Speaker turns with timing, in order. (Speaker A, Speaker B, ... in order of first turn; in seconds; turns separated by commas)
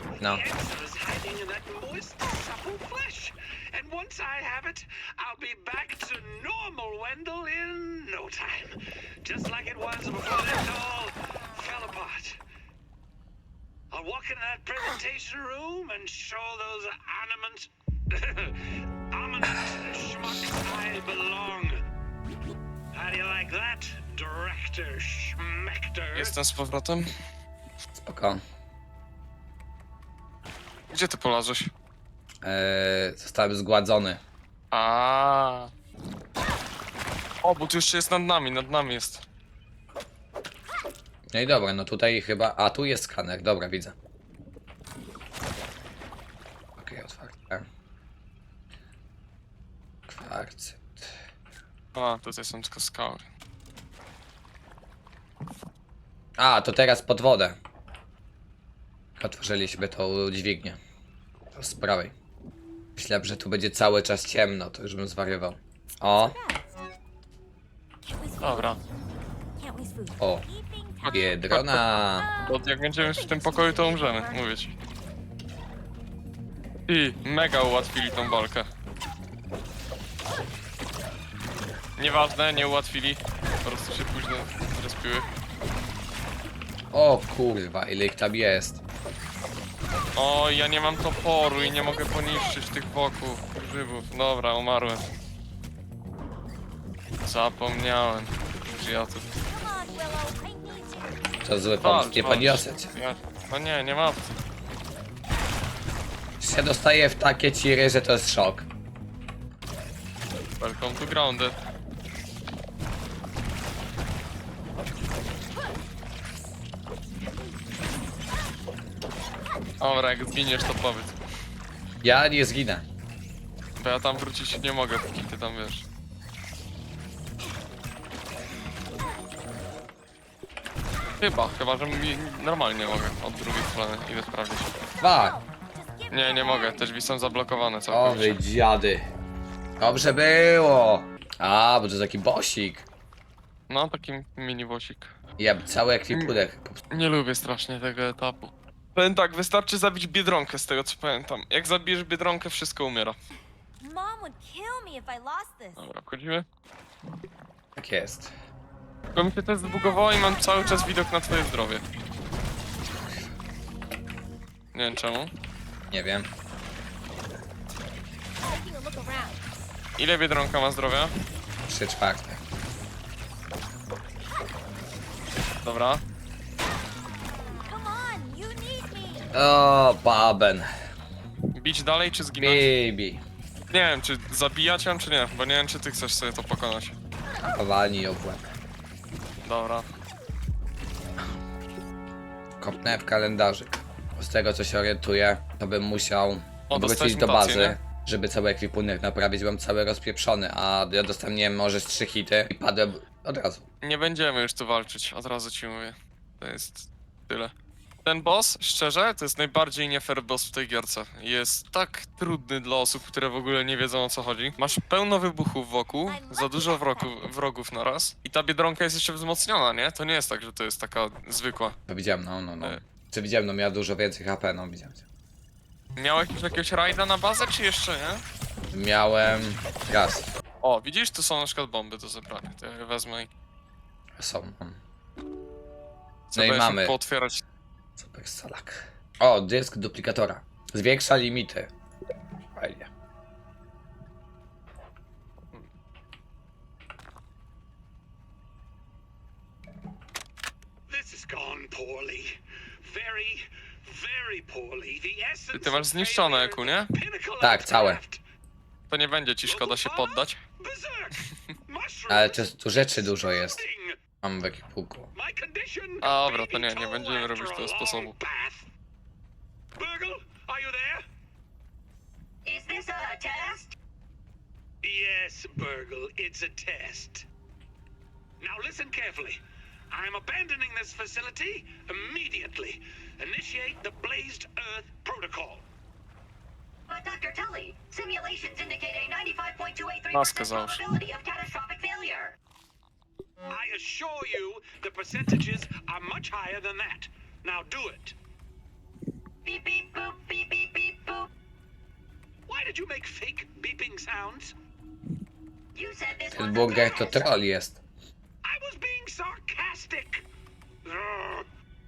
Speaker A: 0.2-12.4, Speaker B: 0.2-0.5, Speaker A: 13.9-21.8, Speaker A: 22.9-26.4, Speaker C: 26.1-27.1, Speaker B: 27.9-28.4, Speaker C: 30.9-31.7, Speaker B: 32.4-34.2, Speaker C: 34.7-35.7, Speaker C: 37.4-39.2, Speaker B: 41.3-44.0, Speaker B: 46.8-47.7, Speaker B: 50.1-51.2, Speaker C: 52.0-53.3, Speaker B: 56.4-57.6, Speaker B: 59.2-60.8, Speaker B: 61.5-62.1, Speaker B: 63.0-66.4, Speaker D: 66.2-66.7, Speaker D: 68.1-68.8, Speaker C: 68.4-68.8, Speaker D: 69.6-71.3, Speaker B: 70.2-70.5, Speaker C: 71.0-71.8, Speaker B: 71.1-72.3, Speaker D: 72.2-74.4, Speaker C: 72.5-74.8, Speaker C: 76.9-78.7, Speaker C: 82.0-85.3, Speaker B: 86.9-88.8, Speaker C: 90.2-95.1, Speaker D: 91.6-92.0, Speaker C: 97.2-99.3, Speaker D: 99.5-101.4, Speaker B: 101.4-102.9, Speaker C: 101.8-104.3, Speaker B: 106.4-108.7, Speaker C: 110.6-111.6, Speaker C: 119.8-121.2, Speaker B: 122.0-122.8, Speaker C: 123.8-125.9, Speaker C: 131.2-134.8, Speaker B: 135.0-135.4, Speaker D: 135.1-136.8, Speaker C: 136.1-138.3, Speaker B: 137.9-139.1, Speaker B: 139.8-142.9, Speaker C: 143.7-145.2, Speaker B: 145.4-146.8, Speaker C: 146.1-146.4, Speaker C: 146.9-153.2, Speaker D: 153.8-155.8, Speaker C: 155.8-156.4, Speaker B: 157.8-158.3, Speaker C: 159.2-161.8, Speaker D: 160.0-161.0, Speaker C: 164.7-165.3, Speaker B: 165.9-166.3, Speaker D: 168.4-169.2, Speaker E: 168.6-169.4, Speaker C: 170.0-171.2, Speaker B: 171.7-172.4, Speaker C: 175.6-176.0, Speaker D: 177.7-179.3, Speaker B: 179.3-180.7, Speaker C: 181.6-182.7, Speaker B: 182.4-183.2, Speaker C: 183.7-187.0, Speaker B: 187.4-188.5, Speaker C: 189.4-189.9, Speaker B: 192.6-203.7, Speaker C: 196.7-197.8, Speaker C: 203.8-207.5, Speaker C: 208.1-221.8, Speaker D: 216.1-217.1, Speaker B: 221.9-225.1, Speaker C: 226.0-228.2, Speaker B: 228.7-230.3, Speaker C: 230.6-233.3, Speaker B: 234.2-234.8, Speaker C: 236.3-237.4, Speaker B: 236.3-237.0, Speaker B: 238.0-241.7, Speaker B: 242.6-242.9, Speaker A: 250.9-258.2, Speaker C: 255.5-256.9, Speaker B: 257.4-258.0, Speaker C: 258.9-260.4, Speaker A: 259.4-264.0, Speaker B: 262.1-263.6, Speaker B: 264.2-265.1, Speaker A: 265.1-268.7, Speaker C: 266.0-268.1, Speaker A: 269.8-271.0, Speaker E: 272.4-273.8, Speaker A: 274.8-277.3, Speaker A: 278.4-279.4, Speaker A: 279.9-285.6, Speaker E: 286.9-292.4, Speaker C: 290.1-290.8, Speaker A: 293.5-298.2, Speaker E: 299.4-301.3, Speaker A: 302.5-304.5, Speaker E: 305.8-307.3, Speaker B: 306.3-307.8, Speaker A: 308.4-310.3, Speaker A: 310.8-311.4